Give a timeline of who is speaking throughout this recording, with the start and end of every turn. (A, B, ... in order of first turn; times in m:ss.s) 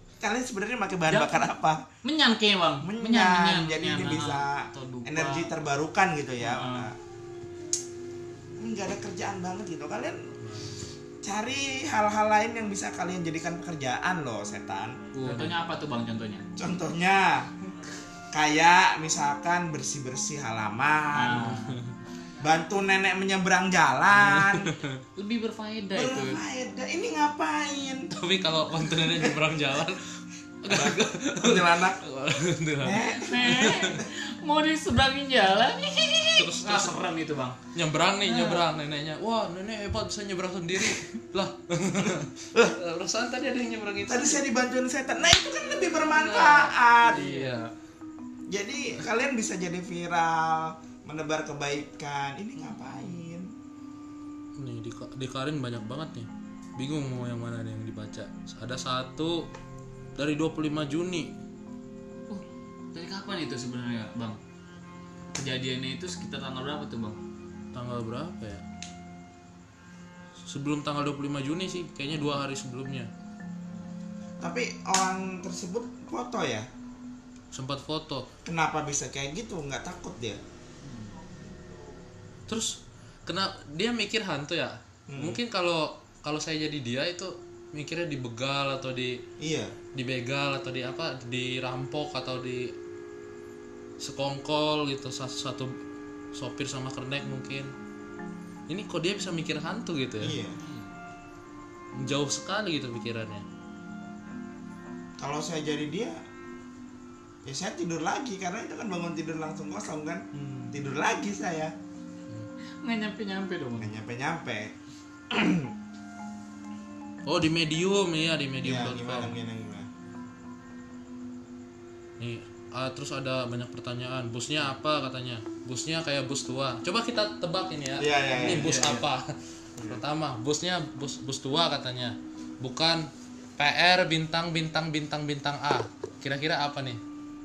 0:00.2-0:01.8 A
0:01.1-0:01.5 B
0:02.0-0:05.5 B
0:02.8-0:06.9 A
0:06.4-0:06.9 B
0:08.6-0:10.3 A
0:10.4-0:10.8 C
0:11.2-0:15.1 A
0:15.1-0:16.5 B
0:15.2-0:15.5 C
0:16.6-0:17.5 A
0:18.3-0:21.6 A
0:21.1-0:21.8 B
0:22.4-0:24.7 A
0:24.1-0:25.0 C
0:25.2-0:26.4 B
0:25.9-0:28.1 A
0:28.1-0:30.1 C
0:29.1-0:29.4 A
0:30.6-0:34.0 C
0:30.7-0:32.0 A
0:32.8-0:33.7 A
0:33.2-0:37.6 B
0:36.4-0:36.9 C
0:37.7-0:44.4 C
0:38.2-0:38.6 B
0:42.0-0:42.8 A
0:44.1-0:47.2 A
0:46.0-0:47.6 C
0:47.0-0:47.7 B
0:48.5-0:53.5 A
0:54.6-0:59.5 C
1:00.2-1:01.3 C
1:02.3-1:04.4 B
1:05.3-1:07.2 B
1:07.7-1:08.6 C
1:10.4-1:13.1 C
1:14.4-1:16.7 A
1:17.5-1:18.3 C
1:18.4-1:20.4 A
1:20.8-1:21.1 B
1:22.5-1:29.2 C
1:25.1-1:25.4 A
1:29.4-1:29.7 A
1:29.9-1:32.7 C
1:34.0-1:35.8 C
1:36.3-1:37.7 C
1:38.7-1:40.4 C
1:40.2-1:40.6 A
1:40.6-1:40.9 B
1:42.0-1:43.4 C
1:45.2-1:46.2 A
1:47.4-1:51.7 A
1:50.3-1:50.8 B
1:52.8-1:54.0 B
1:53.8-1:54.7 A
1:55.3-1:55.7 A
1:57.2-1:59.4 C
1:58.6-1:59.9 A
2:02.2-2:09.3 C
2:08.0-2:08.8 A
2:08.4-2:09.0 B
2:09.8-2:17.0 C